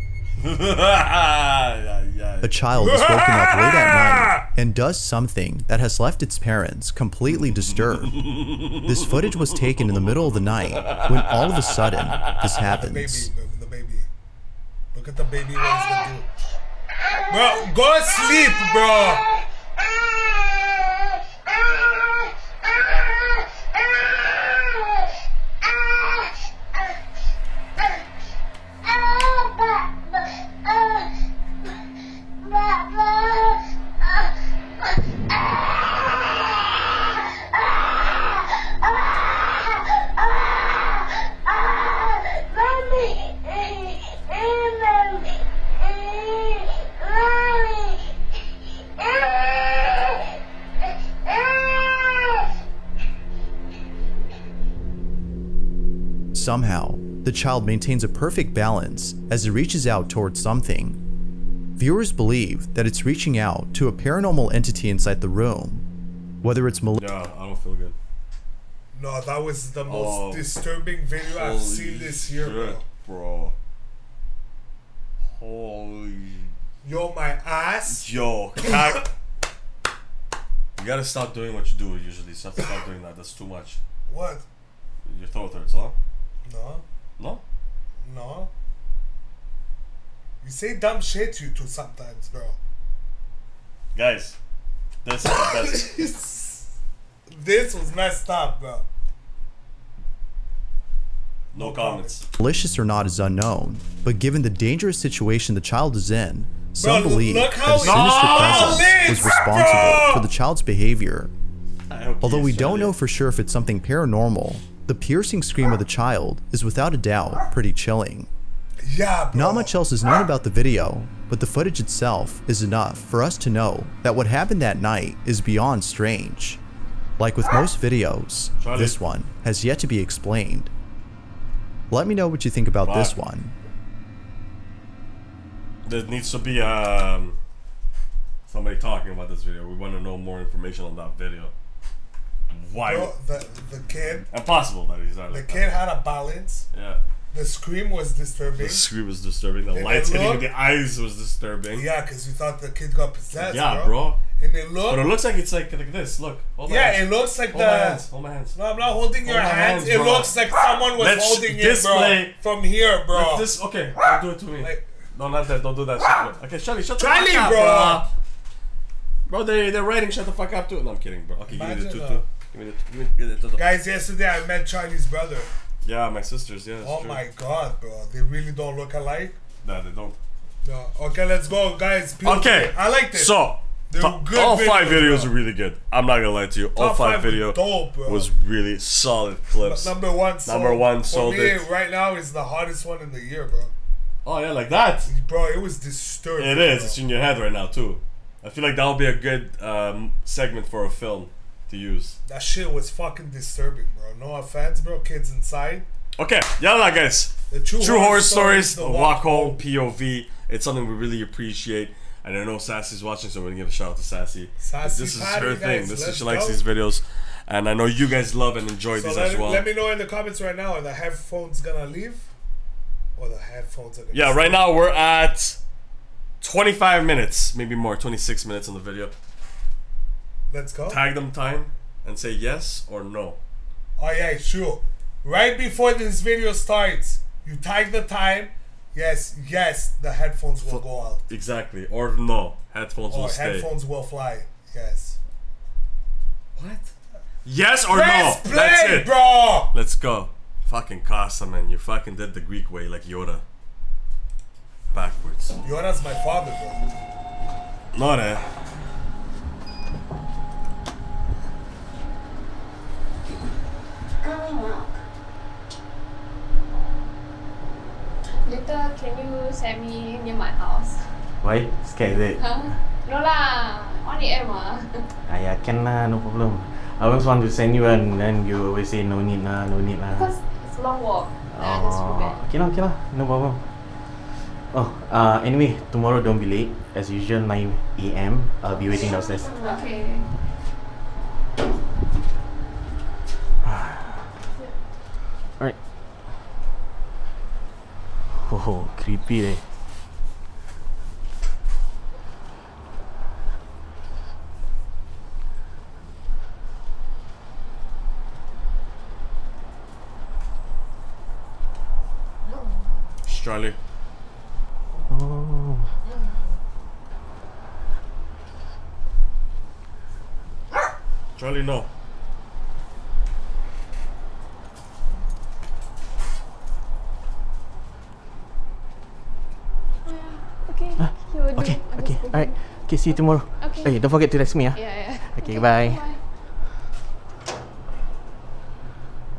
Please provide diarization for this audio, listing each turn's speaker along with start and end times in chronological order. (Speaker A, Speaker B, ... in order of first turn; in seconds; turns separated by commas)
Speaker A: 0.4-2.6, Speaker B: 2.4-8.2, Speaker C: 2.7-4.4, Speaker A: 8.1-11.6, Speaker B: 8.8-13.3, Speaker C: 12.6-14.1, Speaker C: 14.9-16.5, Speaker C: 17.3-19.2, Speaker B: 56.3-61.0, Speaker B: 61.8-65.8, Speaker B: 66.4-67.1, Speaker A: 66.9-67.9, Speaker C: 68.9-72.8, Speaker A: 69.9-70.5, Speaker A: 71.2-73.5, Speaker A: 75.3-76.5, Speaker C: 76.8-78.0, Speaker A: 77.9-79.0, Speaker A: 80.8-83.8, Speaker C: 84.1-84.4, Speaker A: 85.0-86.0, Speaker C: 86.4-86.8, Speaker A: 87.2-87.4, Speaker C: 88.0-88.5, Speaker C: 90.4-92.6, Speaker A: 93.9-94.4, Speaker A: 95.0-95.9, Speaker C: 95.4-96.7, Speaker C: 97.3-98.8, Speaker C: 101.5-102.1, Speaker A: 101.5-102.2, Speaker B: 102.4-111.3, Speaker C: 106.8-110.2, Speaker A: 107.8-108.9, Speaker A: 111.9-112.9, Speaker B: 112.2-118.3, Speaker C: 118.8-119.7, Speaker B: 119.3-126.6, Speaker B: 127.2-130.7, Speaker A: 128.6-129.0, Speaker B: 131.9-133.6, Speaker A: 132.8-133.2, Speaker A: 135.8-137.4, Speaker A: 138.5-141.5, Speaker A: 142.5-143.1, Speaker C: 142.7-144.3, Speaker A: 144.3-145.7, Speaker C: 145.3-146.7, Speaker A: 146.7-147.0, Speaker C: 147.3-148.9, Speaker A: 148.5-151.9, Speaker C: 149.7-150.5, Speaker C: 151.7-155.1, Speaker A: 153.4-154.2, Speaker A: 154.8-158.6, Speaker C: 156.7-158.0, Speaker C: 158.6-163.5, Speaker A: 159.2-160.3, Speaker A: 161.0-162.3, Speaker A: 163.1-168.1, Speaker C: 164.6-164.9, Speaker C: 167.0-168.1, Speaker A: 169.3-173.6, Speaker C: 171.5-172.2, Speaker C: 173.6-175.5, Speaker A: 175.8-177.2, Speaker C: 176.8-179.4, Speaker A: 179.6-180.2, Speaker C: 180.6-185.3, Speaker A: 182.2-191.7, Speaker C: 186.8-188.3, Speaker C: 189.6-193.7, Speaker A: 194.2-195.1, Speaker C: 195.1-197.0, Speaker A: 196.4-202.2, Speaker C: 202.2-205.9, Speaker A: 206.2-219.6, Speaker C: 207.5-209.6, Speaker C: 214.6-216.6, Speaker C: 218.9-222.3, Speaker C: 223.2-224.6, Speaker A: 224.1-225.6, Speaker A: 226.4-229.1, Speaker C: 230.5-231.0, Speaker A: 230.9-233.4, Speaker C: 234.0-241.2, Speaker A: 240.6-243.7, Speaker C: 243.1-245.2, Speaker A: 246.6-246.9, Speaker A: 247.4-249.1, Speaker C: 247.9-249.7, Speaker A: 249.7-253.4, Speaker A: 254.9-255.6, Speaker C: 255.6-256.8, Speaker A: 257.9-258.4, Speaker D: 264.2-264.9, Speaker D: 268.4-271.1, Speaker E: 271.4-272.4, Speaker D: 272.4-274.8, Speaker E: 275.2-280.3, Speaker D: 280.1-282.4, Speaker E: 281.4-284.2, Speaker E: 284.7-289.6, Speaker D: 288.7-290.3, Speaker E: 293.6-294.2, Speaker E: 298.4-299.6, Speaker A: 313.2-313.8, Speaker E: 315.1-315.9, Speaker A: 321.4-321.9, Speaker D: 330.0-336.2, Speaker E: 331.0-336.0